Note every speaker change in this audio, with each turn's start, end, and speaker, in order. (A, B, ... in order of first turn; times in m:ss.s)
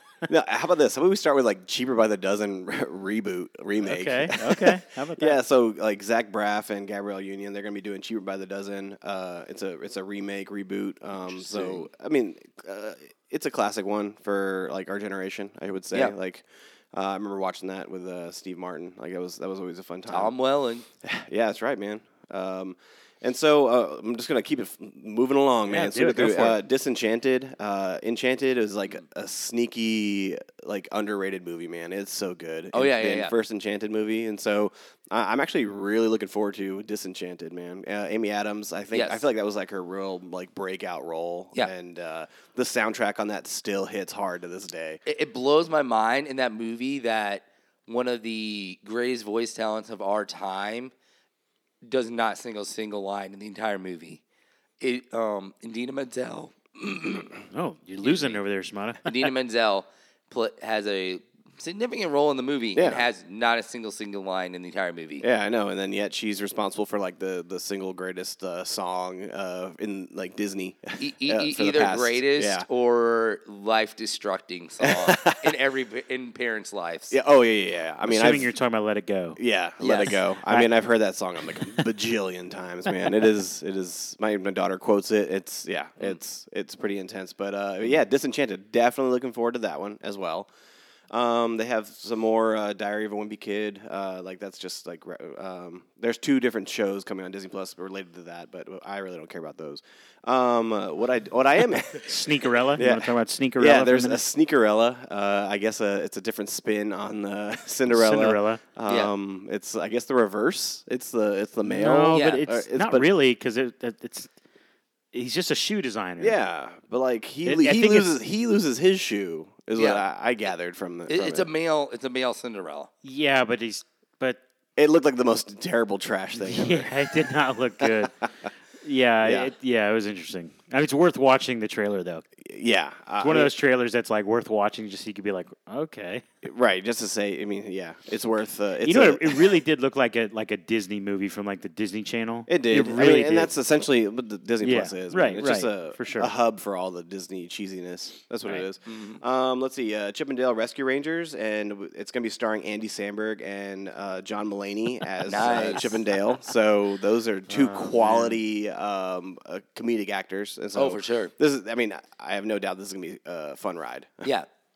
0:00.3-0:20.3 A
0:03.8-0:05.4 B
0:11.5-0:11.8 B
0:20.1-0:20.8 C
0:21.0-0:45.0 A
0:25.7-0:26.6 B
0:32.7-0:33.3 C
0:38.9-0:39.2 C
0:45.1-0:50.9 C
0:51.8-0:54.2 C
0:54.8-0:57.4 C
0:57.5-0:59.1 B
0:58.0-0:58.4 C
0:59.0-1:05.2 C
1:02.8-1:03.1 A
1:05.2-1:12.7 A
1:11.0-1:17.2 C
1:14.8-1:15.6 A
1:17.1-1:18.5 A
1:18.0-1:19.4 B
1:19.4-1:30.5 A
1:19.8-1:20.2 C
1:31.1-1:42.1 A
1:41.9-1:44.2 B
1:42.8-1:53.1 A
1:47.9-1:48.6 B
1:51.6-1:54.3 B
1:52.1-1:52.4 C
1:55.1-1:56.4 B
1:56.2-2:01.5 A
1:57.4-1:58.2 B
1:59.8-2:00.0 C
2:01.1-2:02.9 C
2:03.0-2:04.4 B
2:04.8-2:08.2 A
2:06.4-2:08.2 B
2:08.8-2:12.2 B
2:09.2-2:09.5 A
2:12.4-2:13.5 A
2:13.2-2:16.2 B
2:16.4-2:19.6 A
2:18.8-2:23.5 B
2:22.5-2:44.3 A
2:24.6-2:26.3 B
2:28.9-2:29.2 C
2:35.2-2:36.0 C
2:37.5-2:38.4 B
2:40.8-2:41.3 C